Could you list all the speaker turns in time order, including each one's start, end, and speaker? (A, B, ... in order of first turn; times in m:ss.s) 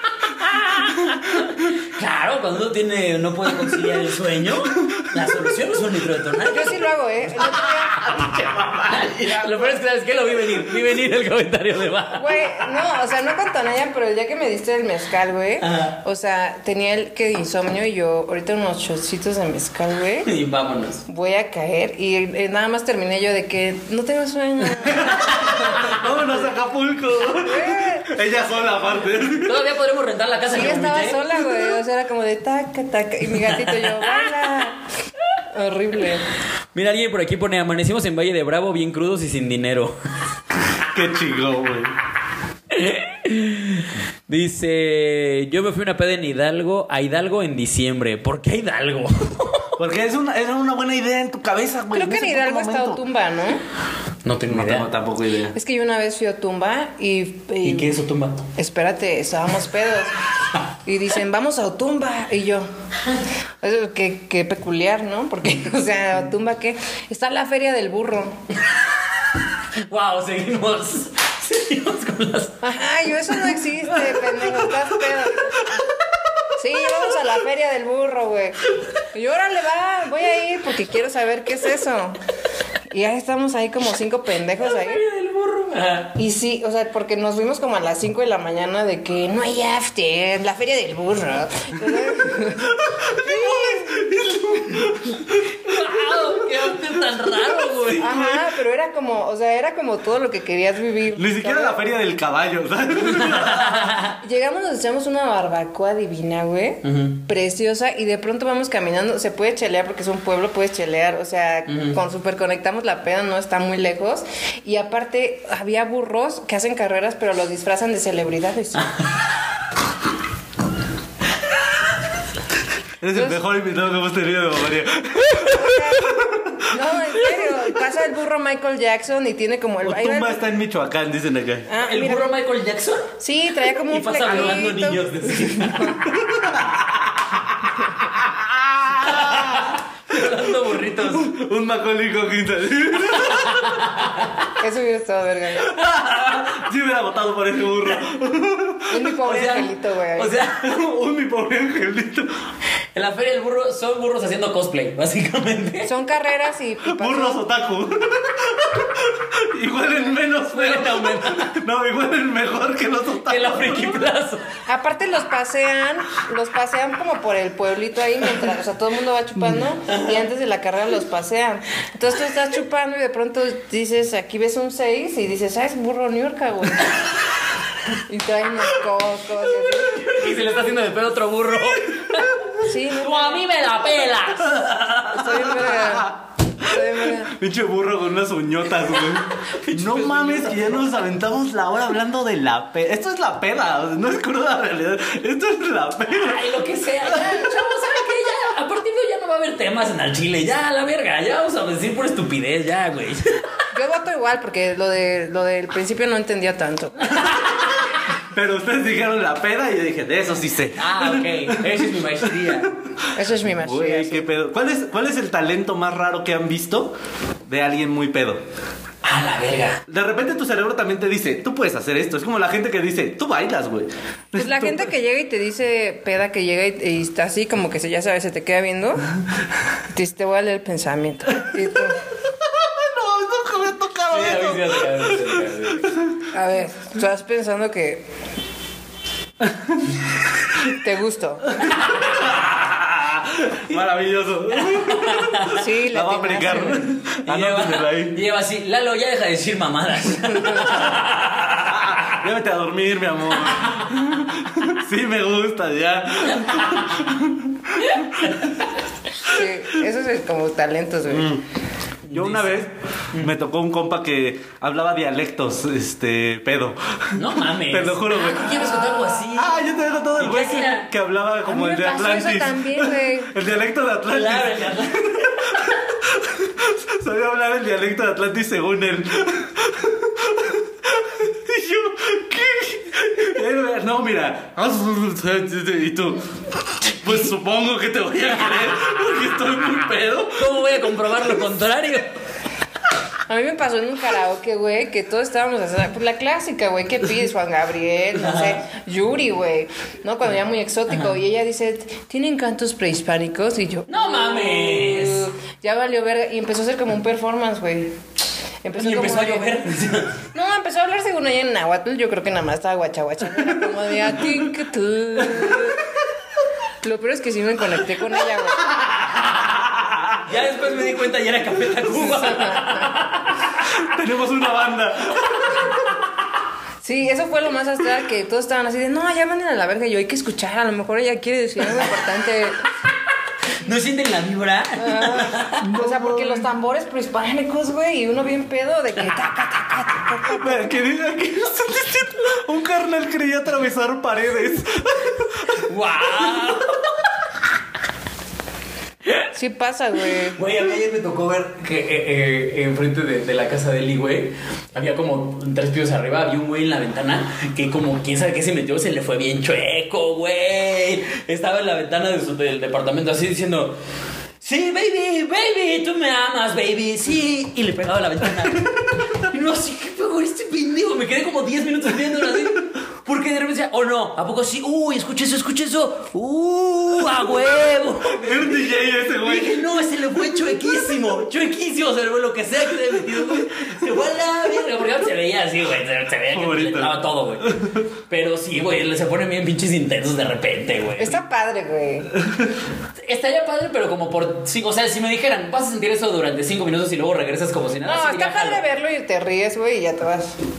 0:00.4-0:06.8 A
0:06.5-0:08.2 B
0:07.4-0:08.3 A
0:08.1-0:09.5 C
0:08.8-0:12.3 A
0:12.1-0:20.3 B
0:15.6-0:16.0 A
0:20.2-0:21.0 A
0:21.1-0:26.0 B
0:24.8-0:29.6 C
0:25.4-0:26.0 A
0:27.4-0:28.1 B
0:29.4-0:31.4 A
0:30.5-0:34.8 B
0:33.5-0:34.3 A
0:35.5-0:36.2 B
0:36.7-0:39.9 A
0:40.9-0:41.9 C
0:42.7-0:49.8 A
0:49.8-0:53.0 C
0:51.9-0:53.6 B
0:54.2-0:54.9 A
0:54.5-0:55.6 C
0:55.5-0:58.0 B
0:57.6-0:58.4 A
0:58.6-1:00.1 B
1:00.8-1:02.7 B
1:03.6-1:08.4 B
1:09.8-1:12.6 A
1:12.6-1:15.6 B
1:16.6-1:18.6 B
1:19.1-1:22.2 B
1:22.9-1:25.0 B
1:24.6-1:26.2 A
1:26.2-1:34.1 B
1:32.5-1:35.7 C
1:35.6-1:38.1 A
1:38.0-1:38.5 C
1:38.0-1:41.8 B
1:41.1-1:43.9 C
1:43.0-1:44.2 A
1:44.0-1:58.9 B
1:46.8-1:47.2 A
1:51.7-1:52.0 A
2:03.0-2:06.8 C
2:05.4-2:10.4 B
2:09.8-2:11.7 C
2:11.7-2:12.3 B
2:11.8-2:13.1 A
2:13.2-2:16.0 B
2:13.9-2:16.0 A
2:16.0-2:19.7 C
2:19.0-2:21.3 A
2:21.0-2:23.8 C
2:23.2-2:24.5 A
2:24.6-2:25.7 B
2:25.6-2:29.1 C
2:28.9-2:30.3 B
2:29.2-2:30.7 A
2:30.6-2:32.3 C
2:32.9-2:35.9 A
2:35.8-2:37.4 B
2:36.8-2:44.0 C
2:40.5-2:41.6 A
2:43.2-2:44.4 A
2:44.7-2:57.0 B
2:58.1-3:00.1 B
2:59.9-3:05.4 A
3:02.6-3:03.4 B
3:04.7-3:17.5 C
3:05.1-3:07.3 B
3:09.0-3:11.0 A
3:16.1-3:23.4 A
3:23.7-3:27.1 B
3:27.1-3:27.8 A
3:28.2-3:31.8 C
3:30.8-3:32.7 A
3:32.4-3:33.1 C
3:33.1-3:34.2 B
3:33.6-3:36.9 C
3:37.5-3:38.4 C
3:39.0-3:39.8 A
3:39.9-3:44.9 C
3:44.4-3:49.1 B
3:49.9-3:52.0 B
3:52.3-3:56.2 C
3:54.1-3:55.9 A
3:56.3-3:58.0 B
3:59.4-3:59.9 C
4:00.7-4:01.5 B
4:01.5-4:08.2 C
4:01.6-4:02.2 A
4:04.7-4:05.6 A
4:05.5-4:06.9 B
4:07.2-4:12.0 A
4:10.2-4:11.0 B
4:11.6-4:18.3 C
4:16.2-4:17.1 A
4:17.8-4:18.7 A
4:19.2-4:21.3 B
4:21.1-4:21.4 C
4:22.1-4:23.3 A
4:22.1-4:50.8 C
4:27.1-4:30.9 A
4:31.4-4:33.3 B
4:34.1-4:35.8 A
4:50.4-4:52.1 A
4:53.3-5:07.9 B
4:58.1-4:58.6 A
5:03.9-5:05.3 A
5:08.6-5:09.5 B
5:08.8-5:10.2 A
5:10.3-5:15.8 B
5:15.2-5:15.8 C
5:16.8-5:18.7 B
5:19.6-5:20.1 C
5:20.2-5:23.6 A
5:22.0-5:22.9 B
5:23.6-5:25.6 C
5:26.8-5:32.6 B
5:33.5-5:35.7 A
5:34.8-5:40.8 B
5:35.6-5:36.5 C
5:40.3-5:45.6 C
5:45.5-5:47.0 A
5:49.3-5:50.4 B
5:50.3-6:03.7 A
6:04.4-6:31.2 A
6:18.0-6:19.6 C
6:26.3-6:27.8 C
6:31.0-6:32.1 B
6:33.0-6:38.6 A
6:37.8-6:40.3 B